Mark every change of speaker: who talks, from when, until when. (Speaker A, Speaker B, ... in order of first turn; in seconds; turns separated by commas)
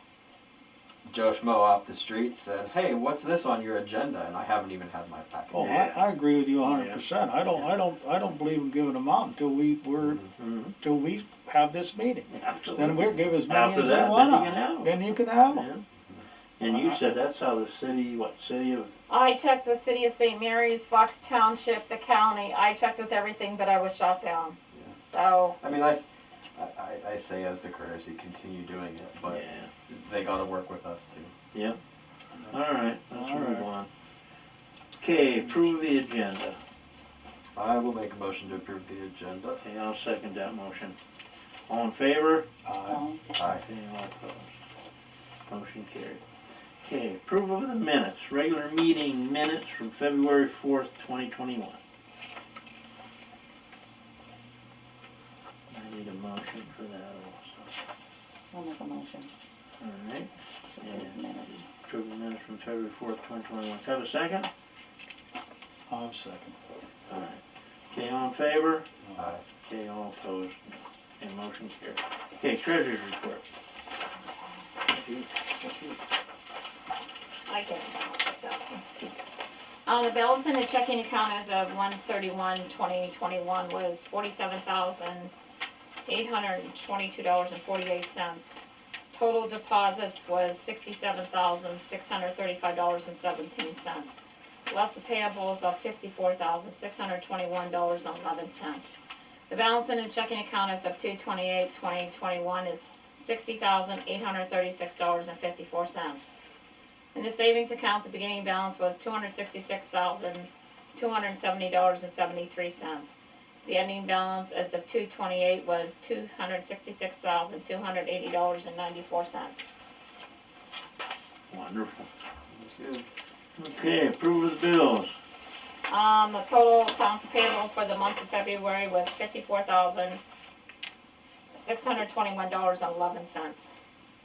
Speaker A: 1.0-5.7, Speaker B: 5.5-10.2, Speaker C: 5.5-6.1, Speaker C: 6.6-7.0, Speaker A: 10.0-10.3, Speaker C: 10.4-10.7, Speaker B: 10.8-15.7, Speaker C: 12.3-15.8, Speaker A: 16.0-16.2, Speaker C: 16.6-18.9, Speaker B: 16.6-17.0, Speaker D: 19.1-25.6, Speaker A: 25.6-31.3, Speaker C: 29.2-29.7, Speaker C: 31.5-31.8, Speaker B: 32.3-33.7, Speaker C: 32.5-33.9, Speaker C: 35.0-36.6, Speaker B: 35.1-35.7, Speaker A: 37.5-39.6, Speaker C: 39.6-41.0, Speaker C: 41.7-42.5, Speaker B: 42.6-43.1, Speaker E: 42.9-43.4, Speaker A: 43.4-43.6, Speaker C: 43.5-44.5, Speaker C: 45.5-46.2, Speaker C: 46.8-51.8, Speaker C: 55.7-57.6, Speaker E: 58.5-59.3, Speaker C: 59.8-64.5, Speaker E: 60.8-61.6, Speaker B: 65.9-66.6, Speaker C: 67.1-68.9, Speaker B: 69.0-69.3, Speaker A: 69.2-69.4, Speaker C: 69.6-73.4, Speaker C: 74.9-76.0, Speaker D: 77.5-78.8, Speaker D: 79.8-85.3, Speaker D: 86.0-88.5, Speaker D: 89.1-98.9, Speaker D: 99.5-106.3, Speaker D: 107.1-119.6, Speaker C: 121.5-122.1, Speaker A: 122.5-123.1, Speaker C: 123.6-125.1, Speaker D: 125.9-130.2, Speaker D: 131.5-133.7